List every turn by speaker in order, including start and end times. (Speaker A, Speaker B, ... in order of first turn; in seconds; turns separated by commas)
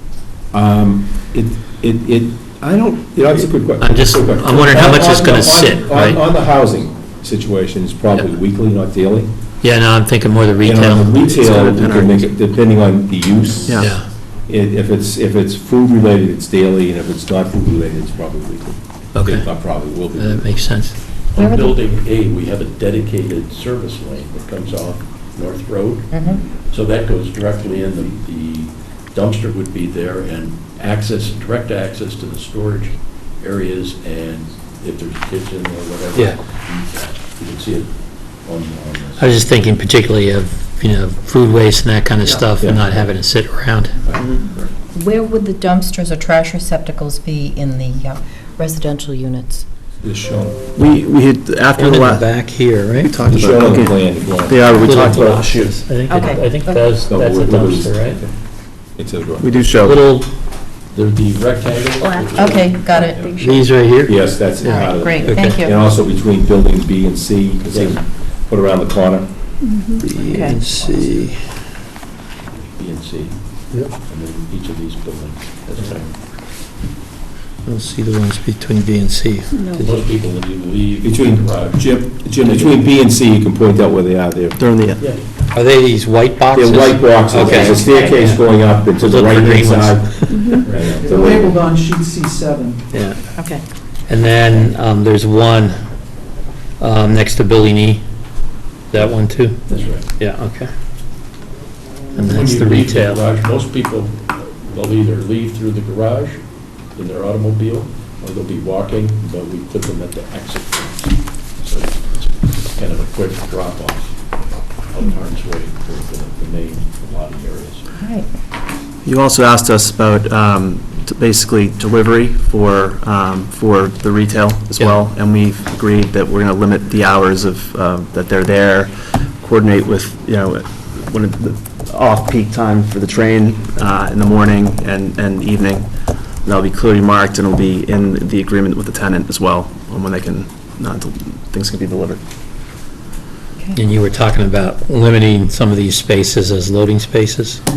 Speaker A: 0.5-9.3, Speaker B: 3.8-6.2, Speaker B: 9.6-11.2, Speaker A: 10.6-20.7, Speaker C: 11.2-12.3, Speaker C: 13.7-13.9, Speaker B: 13.8-14.1, Speaker B: 19.1-19.5, Speaker B: 20.1-21.0, Speaker D: 21.1-39.6, Speaker E: 21.4-21.8, Speaker E: 26.1-26.4, Speaker B: 39.2-44.0, Speaker A: 42.6-42.9, Speaker A: 44.0-44.7, Speaker E: 44.9-49.6, Speaker A: 50.0-50.6, Speaker C: 50.7-52.3, Speaker B: 51.8-53.2, Speaker C: 53.0-55.9, Speaker A: 53.3-54.8, Speaker B: 54.7-58.2, Speaker E: 56.1-56.8, Speaker A: 57.0-58.4, Speaker A: 58.9-59.7, Speaker C: 59.4-60.0, Speaker B: 59.8-60.4, Speaker D: 60.8-63.1, Speaker E: 62.0-63.8, Speaker A: 62.5-69.3, Speaker B: 63.3-65.6, Speaker E: 64.6-65.7, Speaker D: 67.7-68.0, Speaker E: 69.6-70.6, Speaker B: 70.0-71.5, Speaker D: 70.5-71.2, Speaker D: 72.4-76.2, Speaker B: 77.6-80.0, Speaker E: 79.5-79.9, Speaker D: 79.7-82.8, Speaker A: 81.0-84.7, Speaker C: 84.6-85.0, Speaker D: 85.0-85.2, Speaker B: 85.5-90.6, Speaker A: 86.5-91.6, Speaker E: 87.6-88.1, Speaker D: 90.6-91.2, Speaker F: 90.9-92.8, Speaker B: 92.9-93.3, Speaker E: 93.3-93.6, Speaker B: 94.1-95.8, Speaker B: 96.8-98.0, Speaker B: 98.9-100.7, Speaker D: 99.7-100.1, Speaker D: 102.1-117.9, Speaker B: 102.2-103.2, Speaker E: 118.0-118.3, Speaker C: 119.0-142.2, Speaker B: 143.7-147.6